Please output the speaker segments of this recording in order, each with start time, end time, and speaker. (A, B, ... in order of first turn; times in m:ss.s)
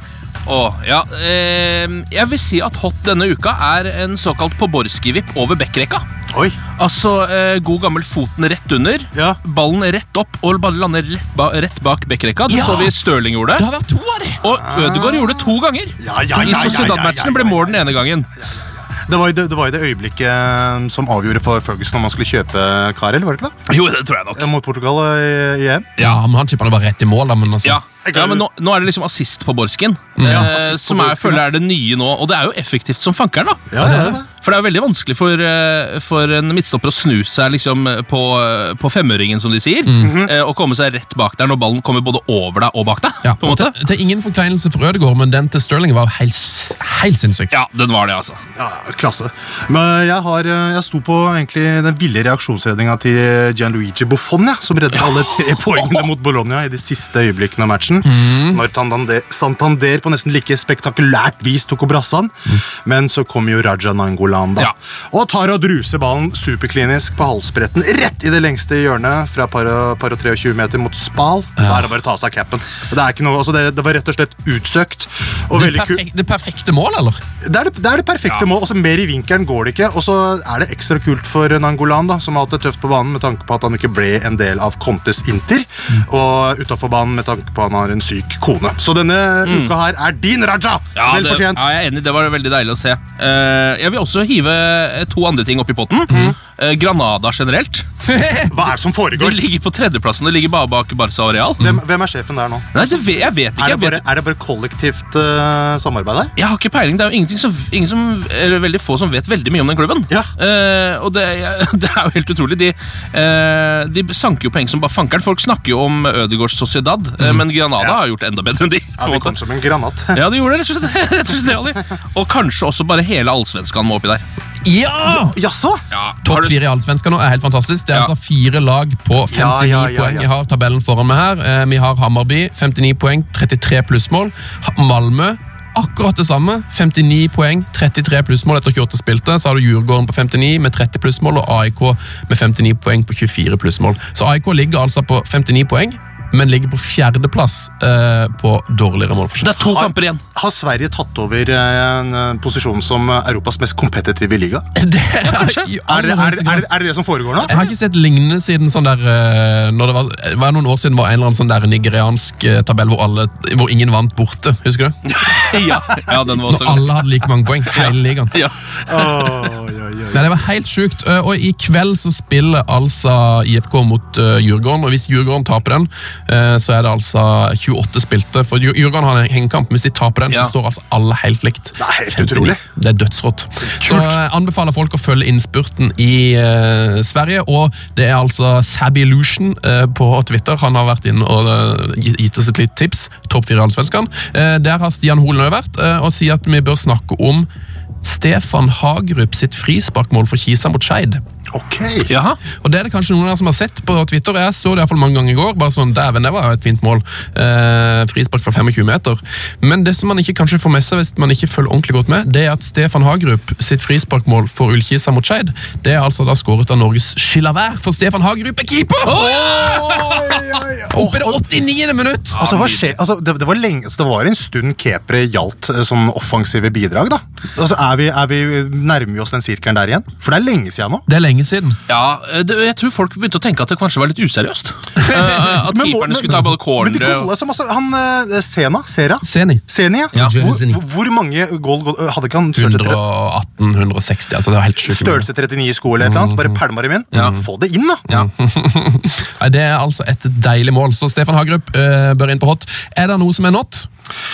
0:00.5-0:06.0 A
0:06.3-0:06.6 B
0:06.8-0:13.6 A
0:12.5-0:13.0 C
0:13.6-0:14.4 C
0:14.4-0:18.3 A
0:14.6-0:23.5 B
0:23.7-0:24.5 A
0:24.3-0:25.9 B
0:26.0-0:27.8 C
0:27.6-0:33.8 A
0:28.0-0:28.4 B
0:30.2-0:30.5 C
0:30.2-0:31.5 B
0:33.7-0:34.3 B
0:33.8-0:34.2 C
0:34.4-0:43.8 A
0:39.9-0:40.2 C
0:40.0-0:40.3 B
0:43.2-0:47.6 C
0:47.5-0:48.4 A
0:48.6-1:16.1 B
0:55.0-0:56.0 A
0:58.0-0:58.6 C
1:11.6-1:11.8 C
1:15.5-1:17.2 C
1:17.4-1:31.7 B
1:29.4-1:29.7 A
1:31.0-1:37.9 A
1:36.1-1:36.4 C
1:38.1-1:38.6 C
1:38.5-1:39.4 B
1:39.2-1:41.7 A
1:41.6-1:46.3 B
1:42.7-1:44.0 A
1:46.4-1:59.4 A
1:59.0-2:00.2 B
2:00.1-2:04.2 A
2:04.6-2:05.4 C
2:05.2-2:05.8 B
2:05.9-2:06.6 A
2:06.2-2:29.6 C
2:09.3-2:10.3 B
2:29.4-2:30.2 A
2:29.6-2:34.6 B
2:34.8-2:36.7 C
2:35.2-2:35.7 A
2:35.8-2:37.5 B
2:37.4-2:45.0 C
2:45.1-2:46.9 A
2:46.4-2:48.4 C
2:47.7-2:49.5 A
2:48.9-2:50.3 B
2:50.1-3:17.5 C
3:01.8-3:02.6 B
3:03.6-3:04.2 B
3:18.0-3:21.2 C
3:21.5-3:22.1 B
3:22.1-3:22.4 A
3:22.6-3:39.3 C
3:39.1-3:40.6 A
3:39.1-3:41.4 B
3:40.9-3:42.4 C
3:42.4-3:43.0 A
3:42.4-3:51.1 B
3:51.1-3:51.8 C
3:51.9-3:57.3 A
3:55.0-3:55.5 C
3:55.5-4:03.0 B
3:59.2-4:00.8 C
4:02.6-4:05.3 C
4:04.8-4:08.0 B
4:06.0-4:06.6 C
4:07.1-4:07.4 C
4:08.1-4:13.9 C